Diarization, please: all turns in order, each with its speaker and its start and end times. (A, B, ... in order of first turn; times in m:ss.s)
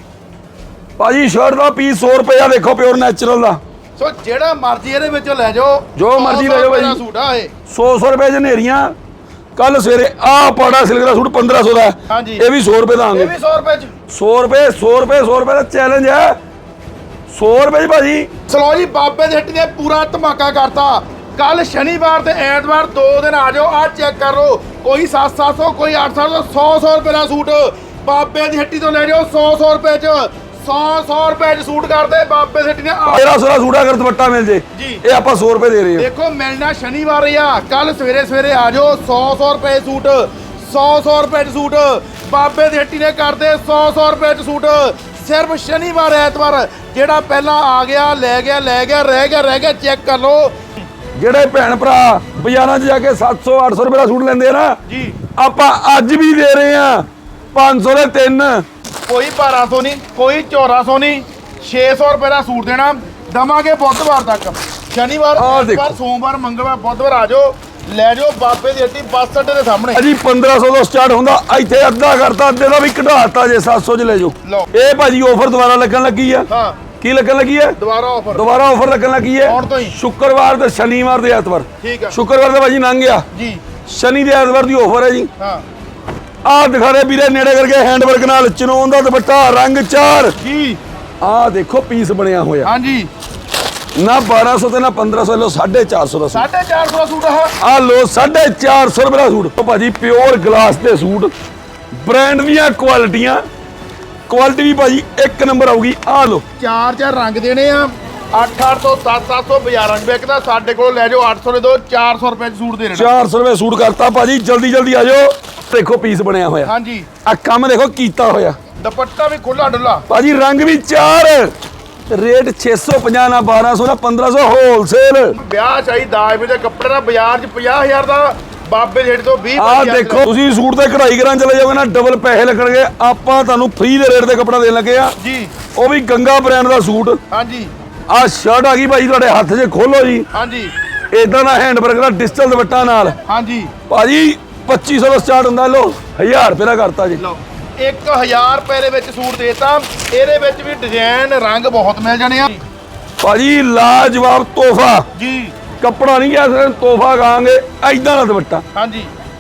0:01.0-0:03.6 A
0:04.0-0:07.5 B
0:06.0-0:07.0 A
0:07.7-0:08.9 A
0:09.6-0:13.3 A
0:12.1-0:12.4 B
0:13.1-0:13.9 B
0:14.1-0:16.4 A
0:17.3-0:18.3 A
0:18.5-0:33.2 B
0:33.0-0:36.1 A
0:34.7-0:35.0 B
0:36.0-0:50.6 B
0:51.2-0:54.8 A
0:54.9-0:55.2 B
0:55.4-0:58.6 A
0:59.1-1:10.0 B
1:05.4-1:06.0 A
1:10.0-1:16.5 A
1:14.4-1:14.7 B
1:16.5-1:16.8 B
1:17.0-1:17.8 A
1:17.8-1:18.4 B
1:18.3-1:23.3 A
1:19.4-1:20.0 B
1:21.8-1:22.2 B
1:23.3-1:23.6 B
1:23.9-1:25.3 A
1:25.4-1:25.6 B
1:26.4-1:30.4 A
1:30.4-1:30.8 B
1:31.2-1:32.7 A
1:32.6-1:33.1 B
1:34.0-1:36.5 A
1:36.3-1:37.6 B
1:37.6-1:41.3 A
1:42.0-1:43.4 A
1:44.3-1:46.4 A
1:46.6-1:53.1 B
1:53.0-1:56.7 A
1:56.6-1:57.1 B
1:57.2-1:58.6 A
1:58.8-2:00.0 B
2:00.1-2:01.5 A
2:02.1-2:05.4 A
2:05.3-2:10.3 B
2:09.6-2:15.2 A
2:15.2-2:15.5 B
2:15.7-2:17.2 A
2:17.3-2:17.7 B
2:18.1-2:20.3 A
2:20.3-2:20.7 B
2:21.1-2:23.2 A
2:23.3-2:23.7 B
2:23.9-2:27.2 A
2:27.2-2:32.6 B
2:33.2-2:35.1 A
2:35.2-2:35.5 B
2:35.8-2:38.6 A
2:38.8-2:39.1 B